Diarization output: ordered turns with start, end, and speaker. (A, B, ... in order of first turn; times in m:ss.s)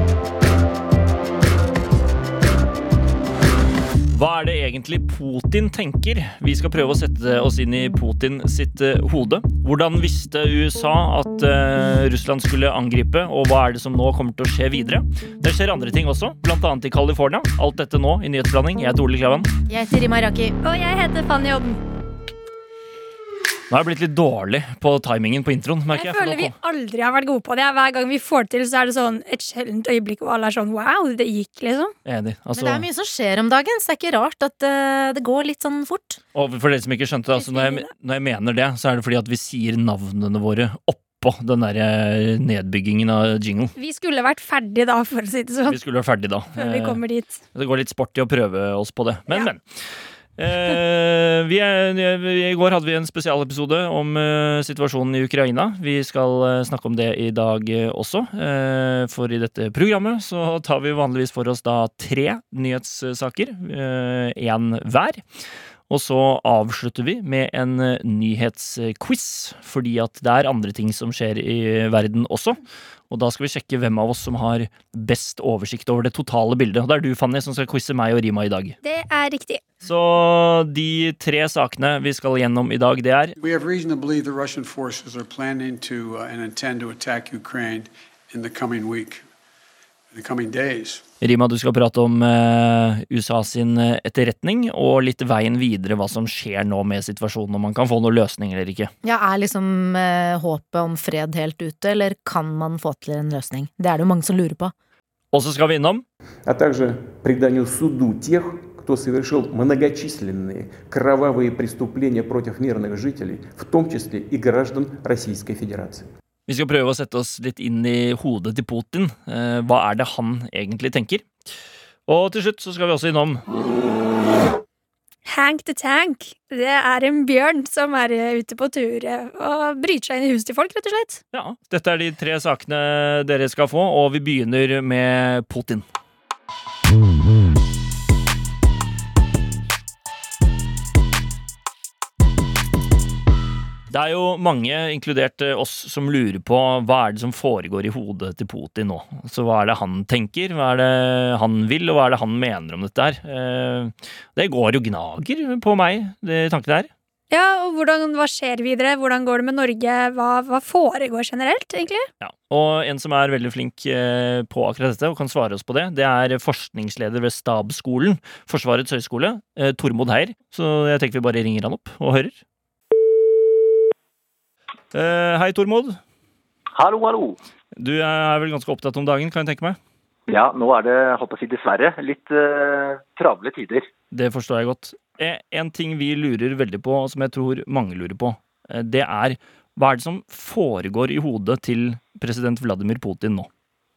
0:04.1-0:19.5 A
0:19.7-0:20.5 B
0:20.6-0:21.8 C
0:23.7-0:26.5 A
0:25.9-0:31.9 C
0:32.0-0:32.8 A
0:32.5-0:36.2 B
0:36.3-0:43.7 A
0:37.4-0:37.9 C
0:43.8-0:45.8 C
0:45.7-0:47.0 A
0:46.5-0:47.4 C
0:47.5-0:49.6 A
0:50.4-1:05.2 A
1:05.9-1:18.8 A
1:18.8-1:19.6 C
1:19.8-1:23.4 A
1:23.4-1:29.2 D
1:30.1-1:31.0 D
1:31.2-1:38.9 A
1:39.0-1:44.7 B
1:45.3-1:46.0 A
1:46.4-1:56.1 E
1:56.5-2:01.2 A
2:02.1-2:03.4 A
2:05.3-2:11.2 C
2:11.3-2:15.8 A
2:23.9-2:36.9 A
2:37.3-2:42.1 C
2:42.2-2:52.4 A
2:54.9-2:56.0 A
2:56.7-2:57.4 F
2:57.7-2:59.8 A
3:00.3-3:03.9 F
3:04.1-3:13.5 A